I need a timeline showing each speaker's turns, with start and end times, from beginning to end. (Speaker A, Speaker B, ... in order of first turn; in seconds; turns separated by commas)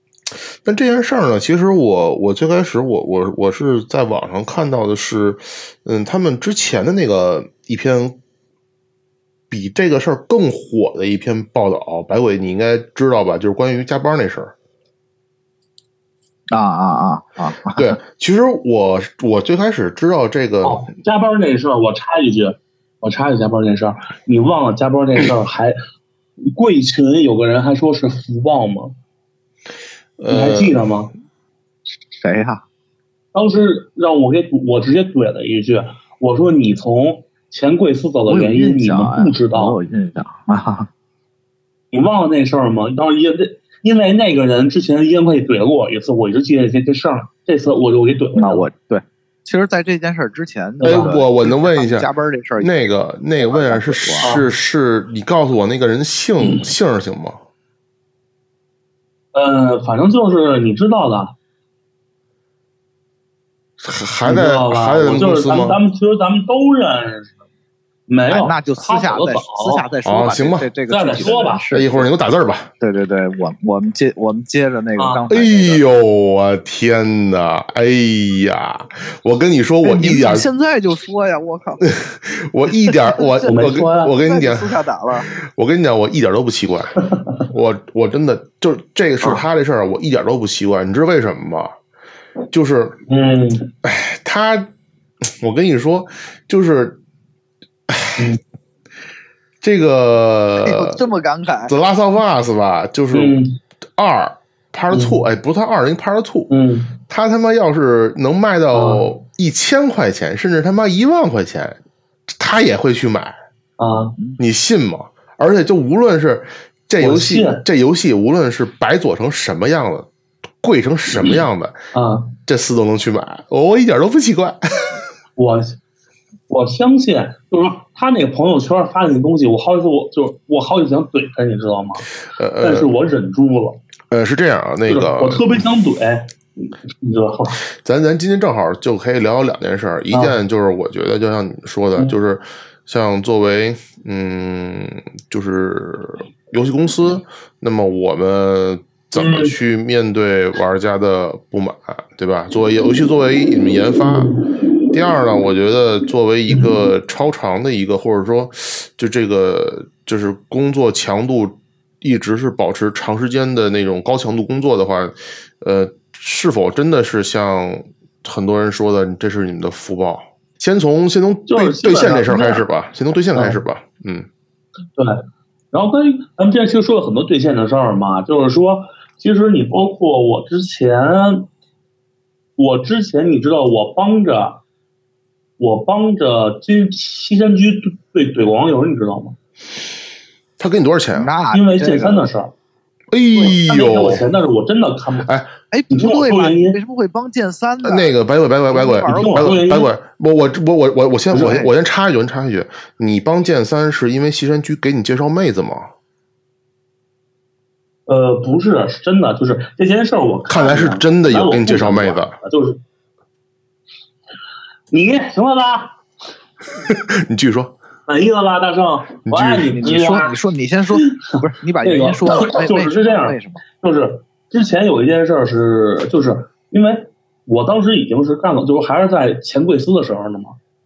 Speaker A: 0.3-8.2, Speaker A: 9.5-14.5, Speaker B: 16.5-18.0, Speaker A: 17.8-20.9, Speaker C: 20.6-25.8, Speaker C: 26.4-28.9, Speaker A: 30.2-30.8, Speaker C: 30.3-31.1, Speaker B: 32.2-32.6, Speaker C: 33.3-39.8, Speaker B: 38.3-40.9, Speaker C: 41.9-48.7, Speaker B: 48.4-54.4, Speaker C: 50.8-51.2, Speaker A: 50.8-52.1, Speaker A: 52.6-57.4, Speaker C: 54.2-54.5, Speaker C: 56.4-56.7, Speaker C: 59.3-61.3, Speaker A: 63.8-65.8, Speaker C: 64.2-67.4, Speaker C: 68.1-69.9, Speaker B: 68.3-72.1, Speaker A: 70.0-70.7, Speaker C: 70.9-71.6, Speaker A: 71.7-72.7, Speaker B: 72.8-75.8, Speaker C: 75.0-75.2, Speaker A: 75.3-80.5, Speaker B: 79.8-81.9, Speaker A: 81.8-91.7, Speaker C: 83.4-84.2, Speaker B: 84.2-85.3, Speaker A: 92.5-93.0, Speaker C: 93.1-93.7, Speaker A: 93.8-94.7, Speaker A: 95.3-97.0, Speaker A: 97.9-98.3, Speaker A: 99.6-101.0, Speaker B: 100.6-101.7, Speaker A: 101.7-103.4, Speaker C: 103.1-103.6, Speaker A: 104.0-106.5, Speaker C: 104.9-105.2, Speaker C: 106.5-106.9, Speaker A: 107.1-111.8, Speaker C: 108.7-109.1, Speaker A: 112.4-113.4, Speaker C: 113.8-114.2, Speaker A: 114.4-120.1, Speaker C: 117.0-117.6, Speaker A: 120.6-121.8, Speaker C: 121.9-122.3, Speaker A: 122.5-125.0, Speaker C: 125.4-125.8, Speaker C: 126.5-132.1, Speaker A: 132.3-132.9, Speaker C: 132.6-133.8, Speaker A: 134.1-135.6, Speaker C: 134.9-137.6, Speaker A: 137.8-154.3, Speaker C: 140.1-140.4, Speaker C: 149.2-149.6, Speaker C: 154.1-154.4, Speaker A: 154.9-174.3, Speaker C: 171.5-172.6, Speaker C: 173.3-173.6, Speaker C: 175.0-181.5, Speaker C: 182.6-184.6, Speaker C: 185.6-189.4, Speaker A: 190.6-191.3, Speaker B: 191.1-192.3, Speaker C: 191.5-192.5, Speaker A: 193.1-194.3, Speaker C: 193.3-195.3, Speaker A: 195.3-195.5, Speaker B: 195.7-198.2, Speaker C: 195.9-196.8, Speaker A: 197.8-205.9, Speaker B: 198.7-199.6, Speaker C: 199.1-199.9, Speaker B: 201.3-201.7, Speaker C: 201.3-201.6, Speaker C: 208.1-212.8, Speaker A: 210.5-212.4, Speaker C: 214.9-216.0, Speaker A: 216.9-217.8, Speaker C: 218.1-220.4, Speaker A: 219.3-219.8, Speaker B: 219.7-223.6, Speaker C: 220.9-230.6